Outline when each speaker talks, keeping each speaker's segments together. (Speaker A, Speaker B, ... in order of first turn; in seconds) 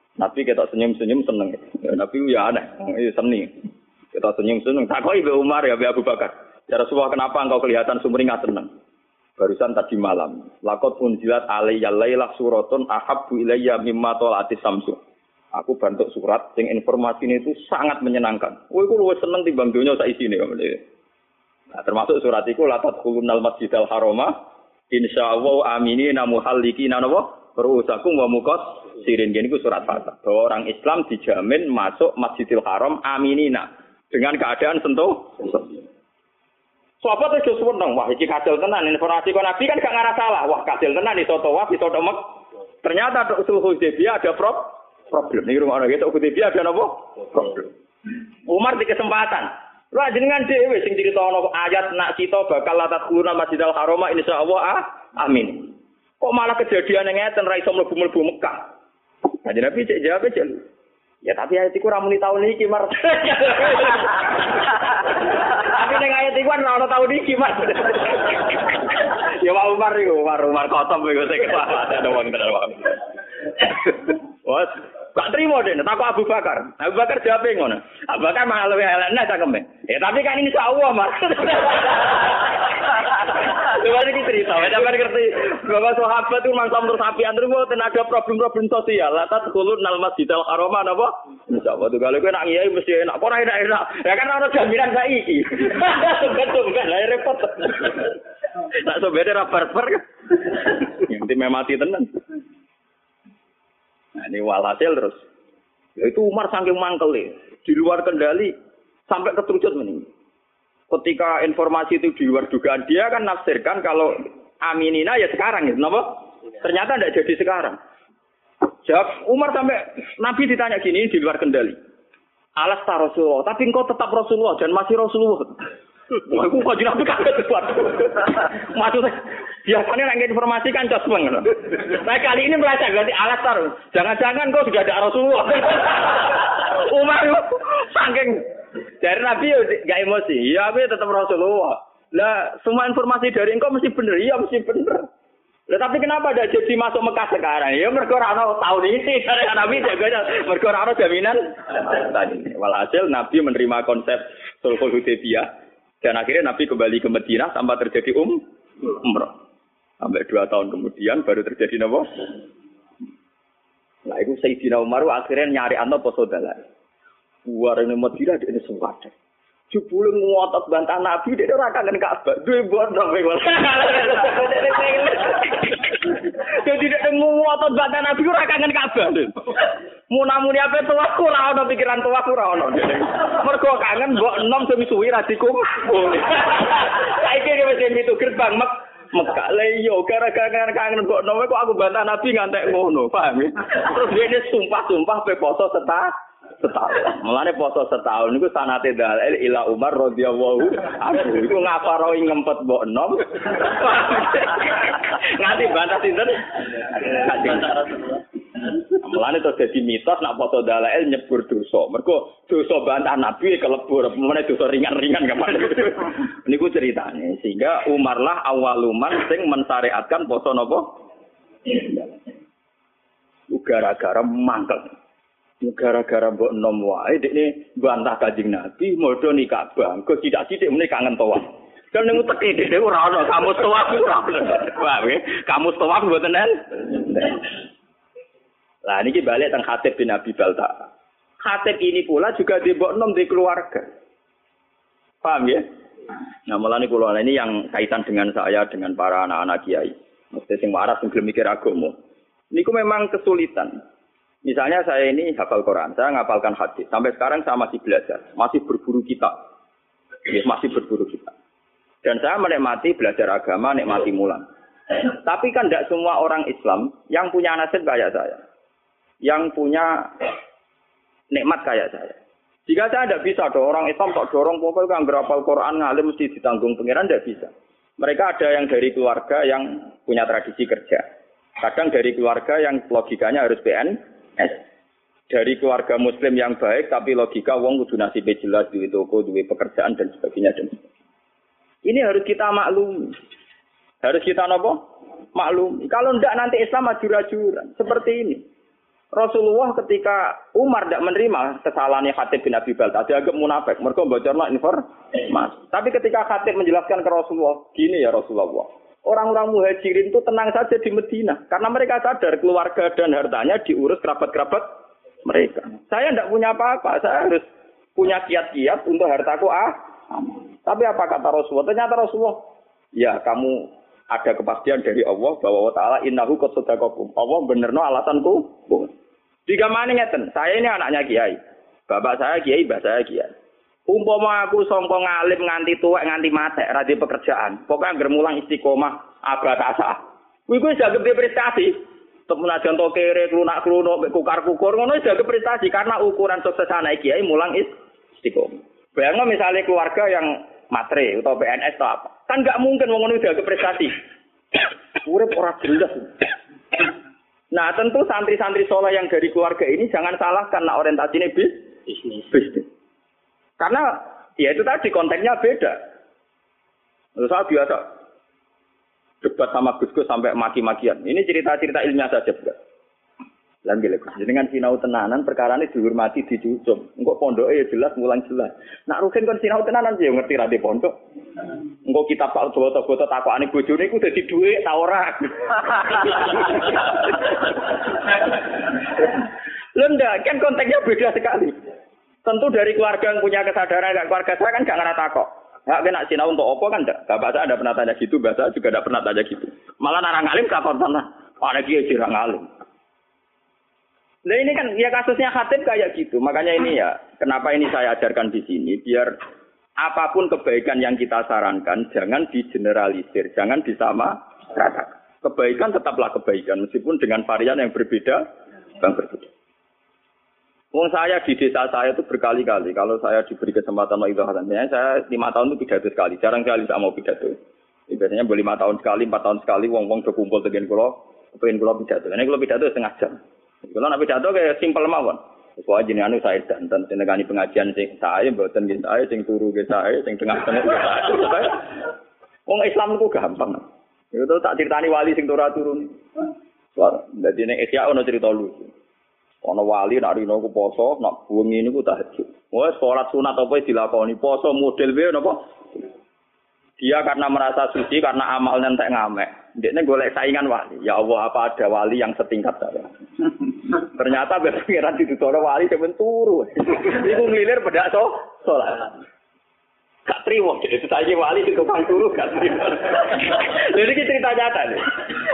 Speaker A: 0.2-3.5, 4.1-8.7, 9.4-15.0, 15.5-20.8, 21.7-24.3, 24.9-35.7, 37.0-42.2, 42.8-47.7, 48.5-58.6, 59.4-60.6, 61.2-72.9, 73.6-98.2, 98.7-100.0, 100.6-102.1, 104.2-105.2, 106.0-108.5, 109.1-110.1, 110.9-117.8, 118.8-121.8, 122.6-125.5, 126.1-138.4, 139.0-145.1, 145.7-155.5, 156.0-159.3, 160.0-162.1, 164.1-166.6, 167.4-169.1, 169.7-220.9, 221.7-222.0, 223.5-224.9, 225.6-237.4, 238.8-240.7, 241.4-243.8, 245.2-245.6, 246.5-251.9, 252.5-253.7, 254.4-259.3, 260.3-261.3, 262.0-264.4, 265.0-268.4, 269.2-270.1, 271.3-272.1, 272.7-281.0, 281.6-284.6, 285.3-290.8, 291.9-293.1, 294.0-294.8, 295.3-298.4, 299.1-314.6, 315.2-317.4, 317.9-319.7, 320.6-322.4, 323.0-328.9, 329.5-333.3, 333.9-341.7, 342.3-353.9, 355.0-356.1, 357.5-361.5, 362.1-362.6, 363.6-365.8, 367.2-367.8, 369.2-372.6, 373.6-380.9, 381.9-387.3, 389.7-391.5, 392.2-402.4, 404.3-409.1, 409.8-418.2, 418.8-419.3, 420.7-427.4, 427.9-441.7, 442.5-445.9, 446.8-448.7, 449.4-455.4, 456.8-462.9, 463.7-468.9, 470.1-474.9